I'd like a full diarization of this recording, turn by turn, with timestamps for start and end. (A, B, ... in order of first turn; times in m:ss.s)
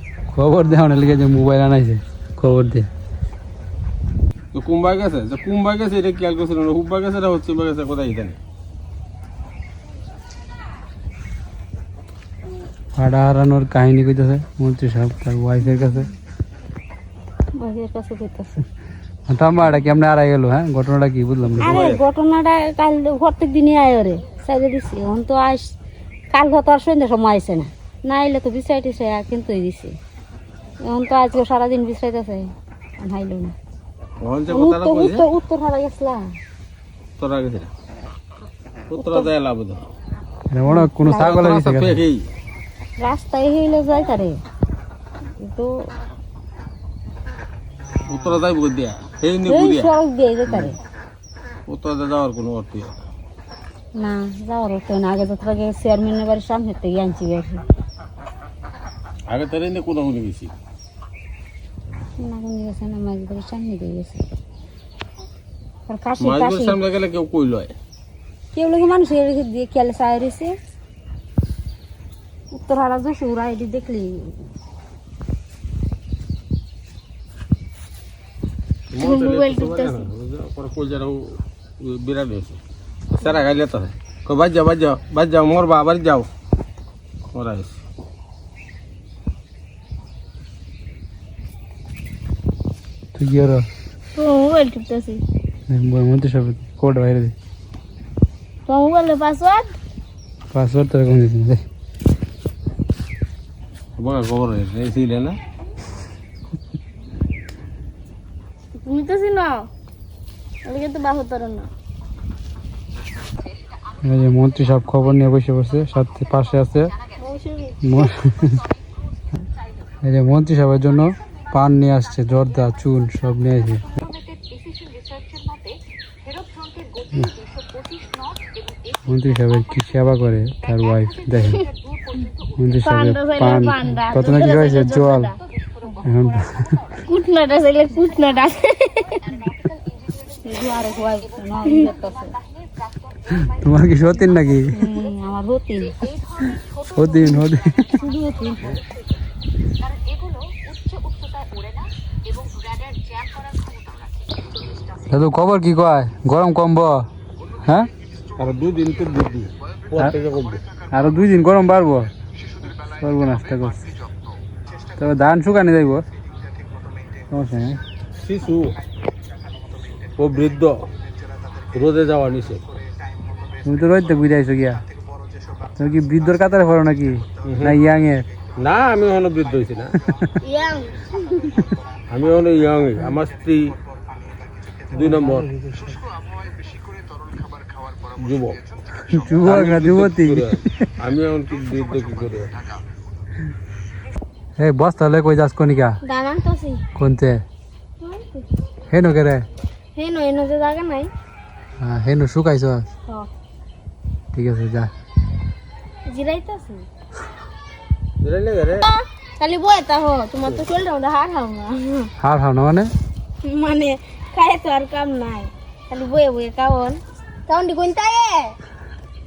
0:00.3-0:02.9 A
0:04.5-0:08.4 B
0:13.0-0:16.1 A
0:17.5-0:18.6 C
0:19.3-0:21.9 A
0:21.6-0:22.0 B
0:21.6-0:25.7 C
0:26.3-0:30.0 C
0:30.8-0:33.5 C
0:34.2-0:35.2 B
0:34.5-0:36.4 C
0:37.2-0:37.7 B
0:38.9-0:39.8 B
0:40.5-0:42.0 A
0:40.7-0:41.4 C
0:41.1-0:42.3 B
0:43.0-0:44.4 C
0:45.4-0:45.9 C
0:48.1-0:49.9 B
0:49.4-0:50.8 C
0:51.7-0:52.9 B
0:54.0-0:57.6 C
0:59.3-1:00.5 B
1:02.2-1:04.2 C
1:05.9-1:06.8 C
1:06.2-1:07.7 B
1:08.5-1:10.6 C
1:12.5-1:14.4 C
1:18.9-1:21.2 B
1:19.0-1:20.1 D
1:21.8-1:22.6 B
1:23.1-1:26.3 B
1:27.3-1:27.8 B
1:33.1-1:33.6 A
1:34.2-1:35.2 D
1:35.7-1:37.3 A
1:38.7-1:39.7 D
1:40.5-1:41.6 A
1:44.0-1:45.4 B
1:48.8-1:49.7 D
1:50.6-1:51.7 D
1:54.0-1:56.9 A
1:57.2-1:58.1 D
1:57.8-1:58.6 A
2:00.0-2:03.8 A
2:09.0-2:11.7 A
2:12.6-2:15.3 A
2:12.8-2:15.3 D
2:16.0-2:16.7 A
2:17.0-2:19.4 D
2:20.3-2:22.4 C
2:23.3-2:24.8 A
2:24.7-2:26.0 C
2:26.8-2:28.0 A
2:27.9-2:28.8 C
2:35.1-2:37.1 A
2:37.6-2:37.9 A
2:38.4-2:40.6 B
2:40.9-2:42.1 A
2:42.9-2:43.8 A
2:45.0-2:46.0 A
2:47.3-2:47.8 A
2:48.2-2:48.8 B
2:50.2-2:50.8 B
2:51.7-2:52.6 B
2:53.6-2:54.8 A
2:55.8-2:58.2 A
2:58.6-3:00.0 B
3:00.4-3:01.4 D
3:02.1-3:03.7 B
3:04.9-3:06.0 A
3:04.9-3:05.5 B
3:08.2-3:08.6 B
3:09.0-3:10.9 A
3:09.4-3:12.5 B
3:14.6-3:16.0 A
3:16.0-3:16.8 D
3:17.0-3:17.4 A
3:18.0-3:18.4 D
3:18.9-3:19.4 A
3:20.0-3:21.1 D
3:21.8-3:22.8 A
3:24.3-3:24.9 A
3:26.1-3:26.8 D
3:28.2-3:28.9 B
3:28.8-3:32.1 D
3:32.2-3:32.9 A
3:33.4-3:38.6 D